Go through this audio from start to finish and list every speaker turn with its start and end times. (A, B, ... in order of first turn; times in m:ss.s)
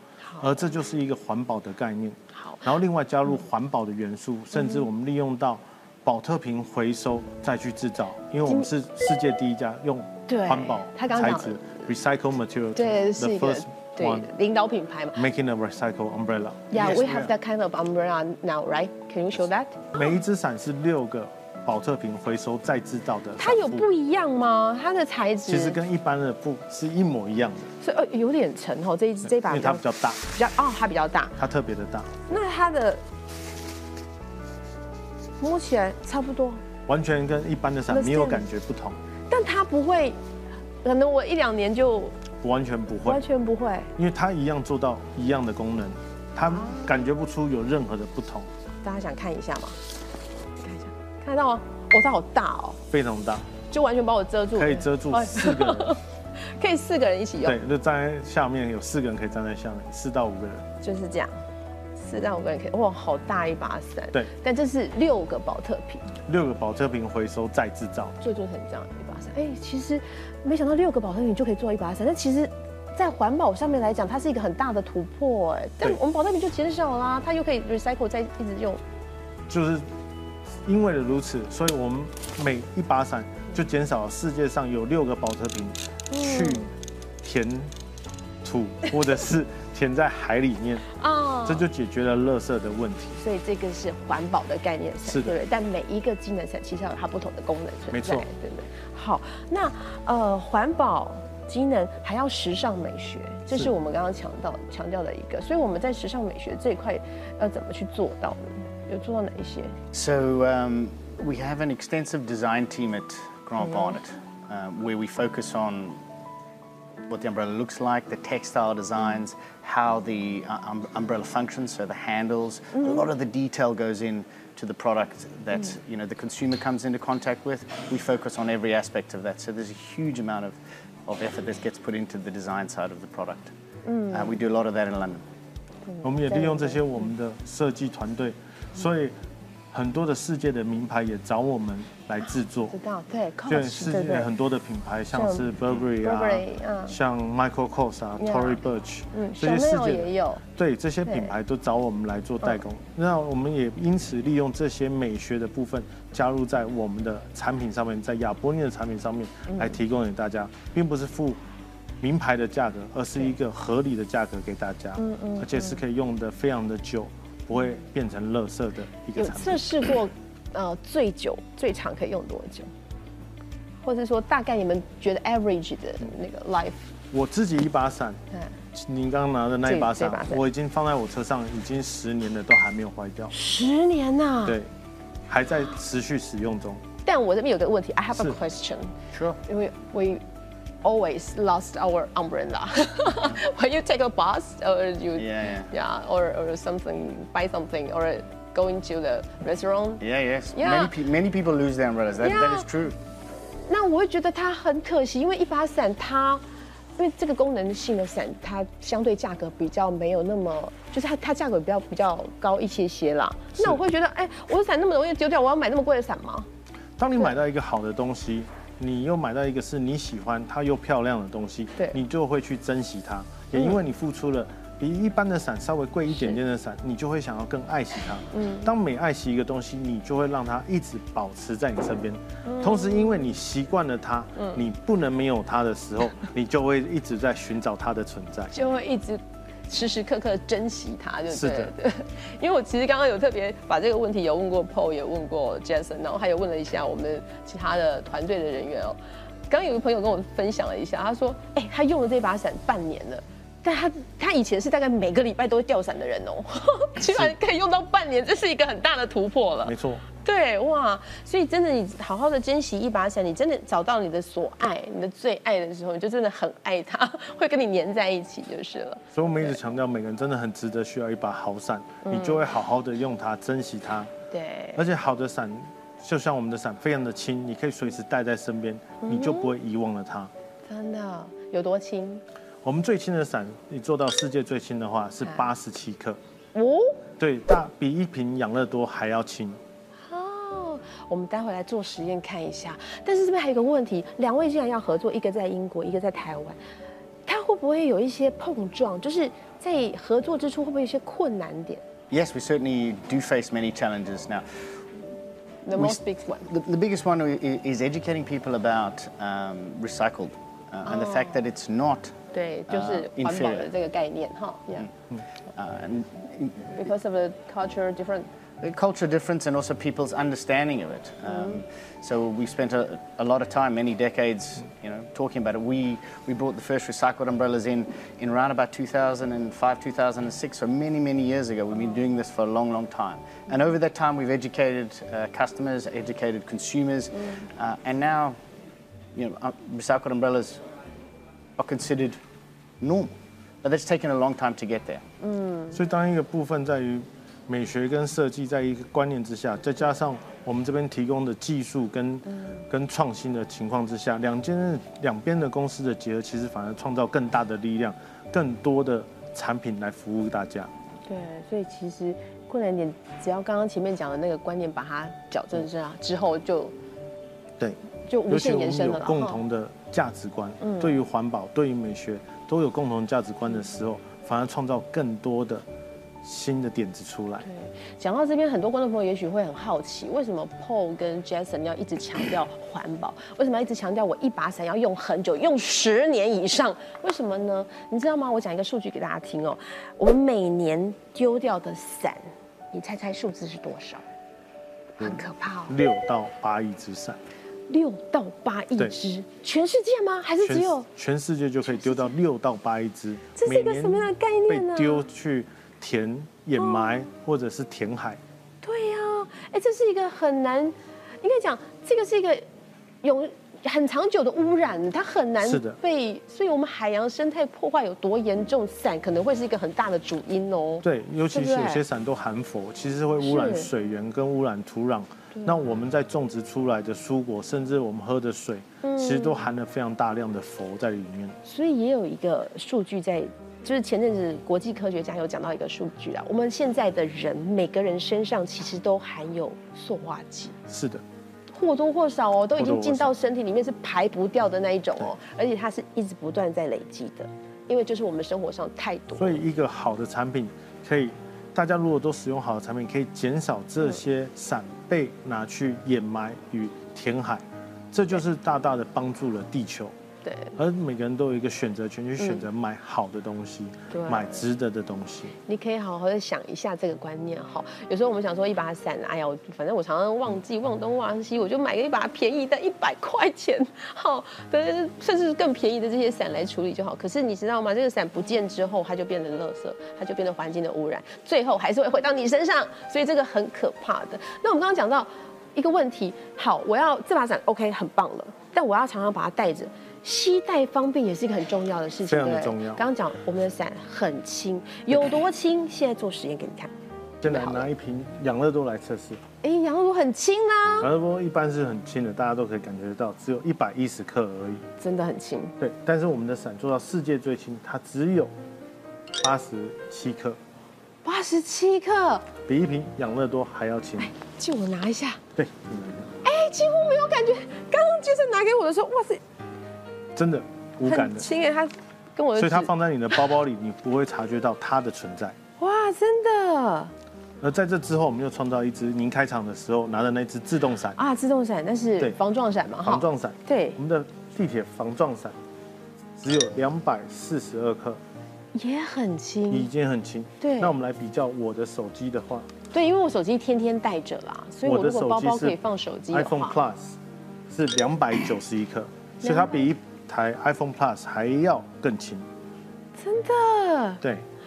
0:00.3-0:00.6 A
0:00.4-0:14.3 B
0:02.4-0:02.7 A
0:04.6-0:04.8 A
0:10.3-0:11.8 A
0:12.8-0:15.2 A
0:15.2-0:17.3 B
0:16.7-0:20.0 A
0:20.0-0:23.9 B
0:23.4-0:25.8 A
0:25.5-0:27.7 B
0:27.8-0:29.8 A
0:29.3-0:30.2 B
0:30.3-0:31.4 A
0:31.4-0:32.2 B
0:32.3-0:33.0 A
0:35.4-0:36.6 A
0:36.9-0:39.0 B
0:37.9-0:38.4 A
0:39.3-0:40.2 A
0:40.8-0:42.2 A
0:42.4-0:43.2 B
0:43.0-0:43.9 A
0:44.0-0:48.5 B
0:46.5-0:46.9 A
0:48.8-0:49.8 A
0:50.6-0:52.8 A
0:52.9-0:53.5 B
0:53.7-0:57.6 A
0:54.6-0:56.0 B
0:57.4-1:00.7 B
1:00.8-1:01.4 A
1:02.0-1:06.1 A
1:06.3-1:08.2 B
1:08.2-1:18.8 A
1:19.5-1:19.9 B
1:20.6-1:26.7 B
1:26.1-1:26.7 A
1:27.2-1:27.7 B
1:28.4-1:30.9 B
1:31.0-1:31.7 A
1:31.5-1:33.2 B
1:33.2-1:49.8 A
1:35.1-1:35.3 B
1:37.9-1:38.3 B
1:49.9-1:56.0 C
1:57.1-2:13.5 C
2:13.9-2:14.4 A
2:14.1-2:15.2 C
2:15.9-2:17.1 A
2:16.0-2:19.2 B
2:19.7-2:22.8 B
2:22.7-2:24.3 A
2:23.5-2:41.4 B
2:25.1-2:27.0 A
2:28.2-2:28.6 A
2:29.1-2:30.4 A
2:39.5-2:39.8 A
2:42.0-2:49.9 B
2:45.0-2:45.8 A
2:49.2-2:52.7 A
2:53.8-2:56.9 A
2:57.1-2:58.2 B
2:58.7-3:03.3 B
2:59.6-3:00.4 A
3:03.3-3:04.6 A
3:05.3-3:06.8 B
3:07.0-3:10.2 A
3:09.1-3:09.4 C
3:10.8-3:20.0 A
3:15.2-3:15.7 C
3:20.0-3:23.0 C
3:20.5-3:20.9 A
3:22.2-3:22.7 A
3:23.5-3:26.4 A
3:27.0-3:36.5 A
3:33.6-3:33.8 B
3:37.0-3:58.5 B
3:46.1-3:46.4 A
3:48.3-3:48.7 A
3:52.4-3:53.2 A
3:58.5-4:09.0 A
4:01.3-4:01.7 B
4:09.5-4:29.6 A
4:17.0-4:17.3 B
4:19.6-4:20.0 B
4:29.1-4:34.1 B
4:32.0-4:32.4 A
4:34.3-4:34.8 A
4:34.8-4:40.3 B
4:39.0-4:39.5 A
4:40.7-4:42.2 A
4:42.6-4:46.2 B
4:46.5-4:47.0 A
4:47.2-4:49.6 B
4:50.1-4:56.6 A
4:57.3-5:01.8 A
5:02.1-5:04.5 C
5:05.6-5:06.5 A
5:05.8-5:12.2 C
5:10.9-5:11.4 A
5:12.3-5:14.9 A
5:12.7-5:13.7 C
5:15.6-5:16.7 C
5:16.7-5:18.3 A
5:18.6-5:38.4 C
5:21.3-5:21.6 A
5:39.2-5:40.6 C
5:41.6-5:42.2 C
5:42.8-5:45.0 C
5:45.2-5:45.8 A
5:45.7-6:00.7 B
5:52.3-5:52.6 A
6:01.1-6:06.8 A
6:07.6-6:15.6 B
6:08.1-6:09.4 A
6:10.6-6:11.0 A
6:16.2-6:17.5 B
6:17.4-6:34.0 A
6:35.0-6:35.8 A
6:35.0-6:37.2 B
6:37.7-6:40.9 A
6:40.4-6:48.2 B
6:41.8-6:42.1 A
6:43.4-6:45.1 A
6:46.6-6:47.0 A
6:48.6-6:52.4 A
6:53.0-7:01.8 A
6:55.4-6:55.8 B
7:00.8-7:11.4 B
7:03.2-7:03.7 A
7:08.8-7:09.5 A
7:11.4-7:20.6 A
7:20.7-7:21.0 B
7:21.5-7:29.4 A
7:22.6-7:23.1 B
7:29.2-7:39.9 B
7:40.2-7:40.6 A
7:40.6-7:45.4 B
7:42.2-7:42.4 A
7:43.9-7:44.4 A
7:45.5-8:16.7 A
8:12.1-8:12.8 B
8:17.2-8:19.2 B
8:17.2-8:17.7 A
8:19.4-8:20.9 A
8:20.8-8:24.7 B
8:24.8-8:25.6 A
8:25.6-8:28.3 B
8:29.2-8:30.4 B
8:31.0-8:32.3 A
8:32.5-8:34.1 B
8:34.0-8:35.2 A
8:35.4-8:36.2 B
8:36.2-8:39.2 A
8:40.2-8:41.3 B
8:40.8-8:43.2 A
8:42.4-8:45.4 B
8:45.6-8:46.9 A
8:47.4-8:51.0 B
8:51.0-8:53.8 A
8:52.8-8:55.4 B
8:56.2-8:58.0 B
8:58.6-8:59.7 A
8:59.5-9:02.5 B
9:00.4-9:00.7 A
9:02.7-9:06.6 A
9:04.6-9:05.6 B
9:06.1-9:07.0 B
9:07.5-9:12.3 B
9:09.2-9:09.7 A
9:13.0-9:14.0 A